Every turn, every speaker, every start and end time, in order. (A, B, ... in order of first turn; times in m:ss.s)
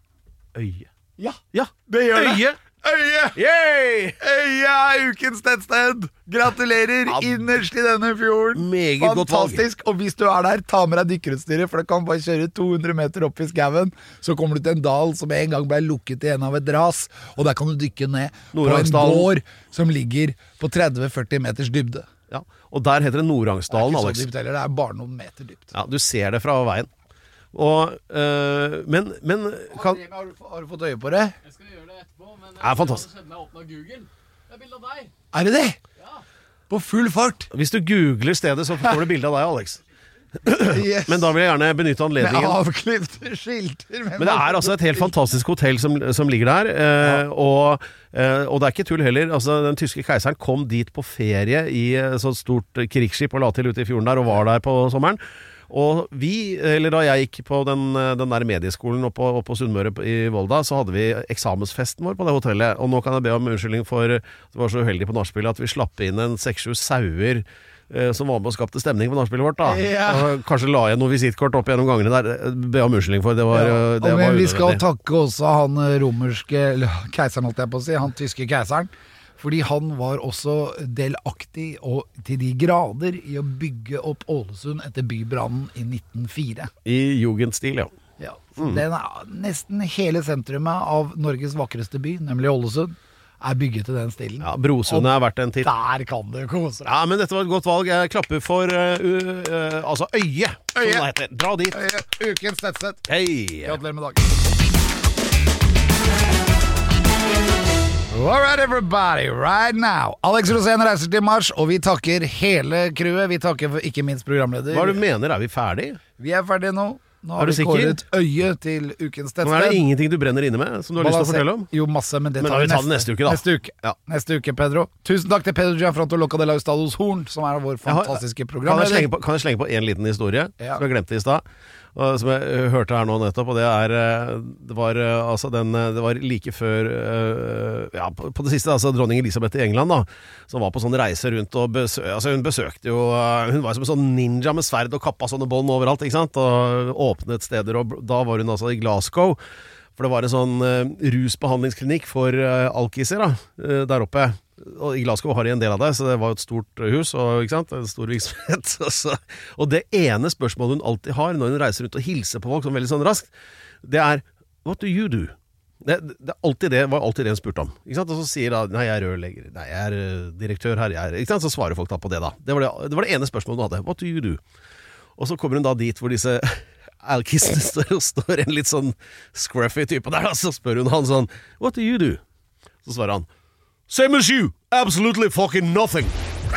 0:00.5-0:00.9 A
0:01.2-0:03.4 B
0:01.5-0:02.6 A
0:03.3-0:04.2 A
0:04.2-0:22.1 B
0:07.0-0:07.4 A
0:08.5-0:09.6 A
0:18.5-0:19.3 A
0:22.3-0:24.3 A
0:23.7-0:25.7 B
0:25.7-0:26.9 A
0:27.5-0:30.0 A
0:29.7-0:31.4 B
0:31.4-0:35.1 C
0:32.6-0:33.1 A
0:35.3-0:35.8 B
0:36.7-0:37.5 B
0:37.5-0:39.8 A
0:40.4-0:42.6 A
0:40.5-0:41.3 B
0:42.2-0:45.1 B
0:44.2-1:14.8 A
1:09.6-1:10.4 B
1:13.5-1:26.7 B
1:26.8-1:27.9 A
1:28.2-1:36.9 B
1:28.6-1:28.8 A
1:34.4-1:35.7 A
1:36.8-1:41.8 A
1:40.8-1:41.1 B
1:41.7-1:43.1 B
1:43.1-1:43.8 A
1:43.6-1:44.3 B
1:48.1-1:55.0 B
1:54.7-1:56.0 A
1:56.2-1:59.8 B
1:57.4-1:58.0 A
1:59.4-2:01.7 A
2:01.0-2:09.1 B
2:02.4-2:04.0 A
2:07.8-2:11.4 A
2:11.9-2:29.4 A
2:30.0-2:43.3 A
2:43.8-2:54.4 A
2:55.2-3:02.2 A
3:02.8-3:03.3 A
3:03.9-3:06.2 A